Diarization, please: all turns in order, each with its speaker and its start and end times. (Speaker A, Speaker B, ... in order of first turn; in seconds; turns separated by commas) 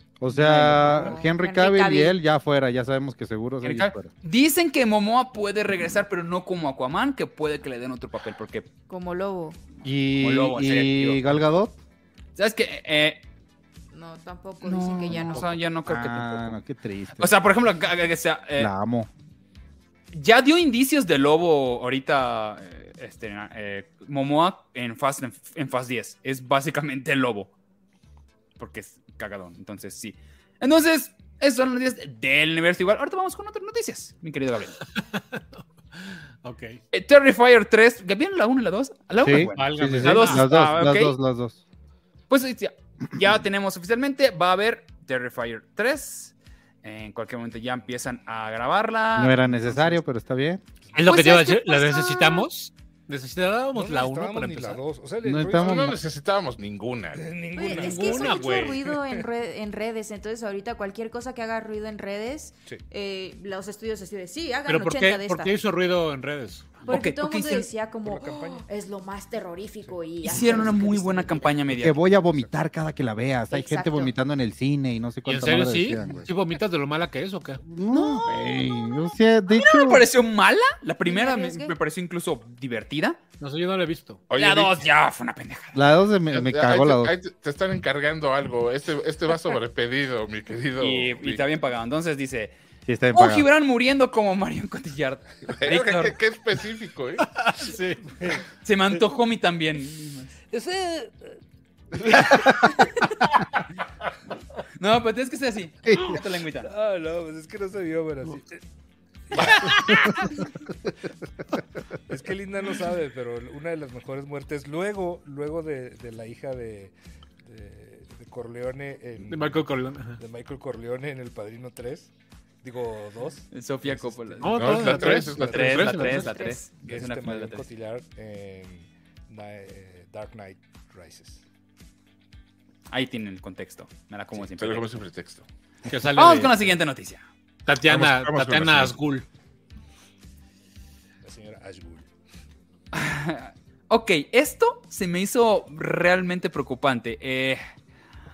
Speaker A: 0.2-4.1, Speaker B: 0.5-2.2, Speaker C: 3.6-8.7, Speaker B: 8.9-9.6, Speaker A: 9.8-11.8, Speaker C: 10.2-11.3, Speaker C: 12.4-13.2, Speaker B: 13.9-15.5, Speaker C: 14.6-16.6, Speaker A: 15.1-17.4, Speaker C: 17.2-18.7, Speaker A: 18.6-19.1, Speaker C: 20.1-27.5, Speaker C: 28.6-34.8, Speaker D: 35.0-36.8, Speaker C: 36.9-41.2, Speaker A: 39.2-41.6, Speaker D: 39.4-40.5, Speaker C: 42.3-50.0, Speaker A: 49.2-50.6, Speaker D: 50.9-54.8, Speaker B: 51.1-52.5, Speaker E: 53.7-55.9, Speaker A: 55.2-56.0, Speaker F: 55.5-57.3, Speaker E: 57.1-59.2, Speaker B: 57.6-65.5, Speaker D: 57.7-58.9, Speaker D: 64.7-67.0, Speaker B: 66.9-71.5, Speaker C: 66.9-67.7, Speaker E: 68.0-68.7, Speaker C: 70.2-72.0, Speaker E: 70.4-70.7, Speaker A: 71.8-76.3, Speaker E: 72.1-72.5, Speaker B: 73.5-74.1, Speaker D: 75.2-77.6, Speaker A: 77.6-80.1, Speaker C: 77.9-83.2, Speaker B: 81.0-81.8, Speaker D: 83.4-84.2, Speaker F: 84.3-84.8, Speaker C: 84.4-85.8, Speaker A: 85.7-87.2, Speaker F: 86.3-91.5, Speaker C: 90.8-92.5, Speaker A: 92.9-93.5, Speaker C: 93.1-96.2, Speaker F: 95.5-97.3, Speaker D: 97.2-98.4, Speaker C: 98.6-100.3, Speaker E: 100.5-101.4, Speaker E: 102.0-102.7, Speaker C: 104.8-106.7, Speaker A: 105.9-106.2, Speaker E: 106.7-108.6, Speaker E: 109.3-110.3, Speaker C: 109.4-110.3, Speaker E: 112.1-116.9, Speaker E: 117.4-119.7, Speaker D: 119.2-120.2, Speaker E: 120.2-122.1, Speaker E: 122.6-126.1, Speaker C: 123.5-127.7, Speaker D: 124.4-126.5, Speaker F: 124.5-126.2, Speaker B: 126.3-126.6, Speaker E: 126.7-131.4, Speaker C: 132.9-135.0, Speaker F: 134.3-135.5, Speaker D: 135.9-136.7, Speaker C: 136.1-137.3, Speaker D: 137.7-139.3, Speaker F: 137.9-139.0, Speaker E: 141.2-142.1, Speaker C: 142.9-147.6